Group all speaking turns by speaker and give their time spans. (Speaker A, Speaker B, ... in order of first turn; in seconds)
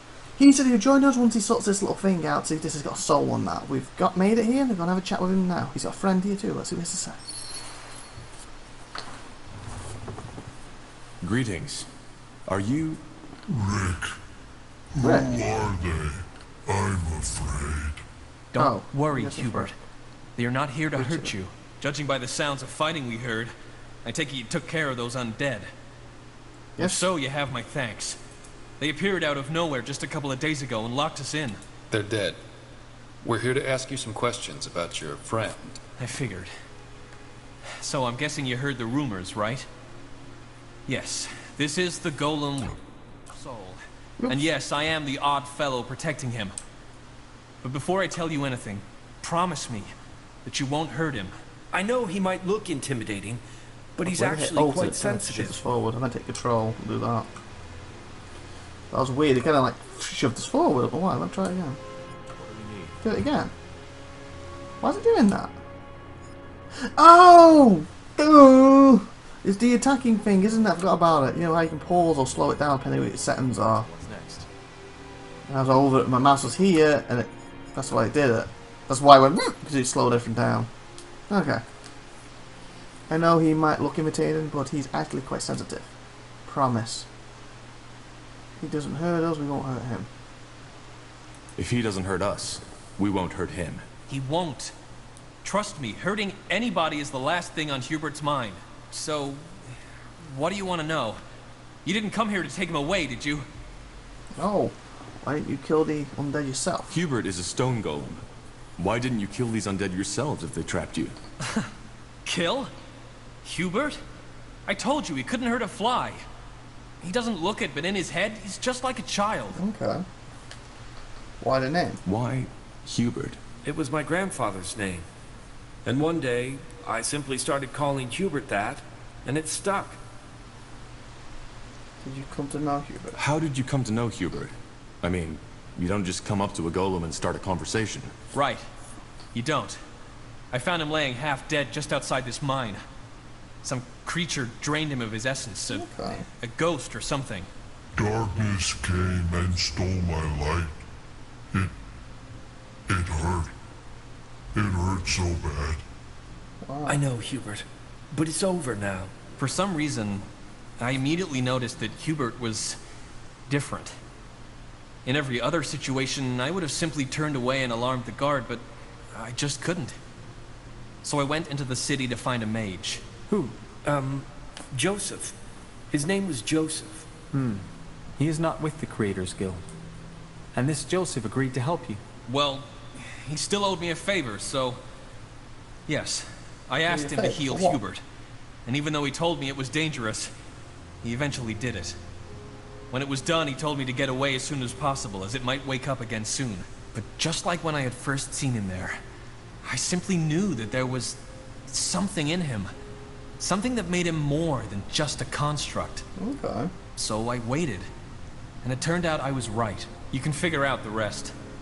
Speaker A: 0.3-7.2, 15.0-15.3, 18.6-19.7, 20.9-21.3, 26.8-27.1, 44.2-44.5, 54.0-57.3, 58.9-61.8, 63.0-63.5, 64.8-65.6, 66.8-73.9, 75.5-80.7, 81.3-81.6, 83.1-87.1, 88.6-90.1, 104.3-107.0, 119.5-120.0, 121.4-122.0, 132.0-133.2, 145.7-146.3, 156.6-157.0, 186.9-187.8, 206.2-206.7
Speaker B: 11.2-11.9, 12.5-13.0, 62.4-62.9, 73.8-74.5, 91.5-93.8, 106.9-108.2, 108.8-111.1, 122.0-123.4, 133.2-138.1
Speaker C: 13.5-14.2, 14.9-18.0, 147.9-150.8, 152.9-153.5, 154.5-155.8
Speaker D: 18.5-19.8, 20.4-23.5, 24.0-25.7, 26.8-28.2, 28.8-31.6, 36.0-36.5, 37.8-39.7, 40.9-46.5, 47.6-49.9, 50.4-51.3, 94.1-94.7, 95.4-99.5, 100.2-101.2, 101.8-103.5, 112.2-112.7, 113.4-114.0, 114.7-116.2, 117.0-119.6, 138.3-138.6, 139.3-139.8, 140.5-142.8, 143.6-145.9, 146.4-147.5, 159.4-160.2, 160.8-162.8, 163.5-163.9, 165.0-168.6, 169.1-169.9, 171.0-173.0, 182.3-184.8, 185.9-188.0, 188.7-190.3, 191.0-191.9, 192.9-199.0, 199.6-202.7, 203.4-206.0, 207.0-207.8, 208.6-211.3
Speaker E: 31.9-32.4, 33.2-35.6
Speaker F: 51.7-53.4, 54.0-55.6, 123.6-125.0, 125.8-130.0, 156.8-159.1, 173.8-175.3, 175.9-177.1
Speaker G: 173.3-173.5, 177.3-177.7, 178.2-179.6, 180.5-182.0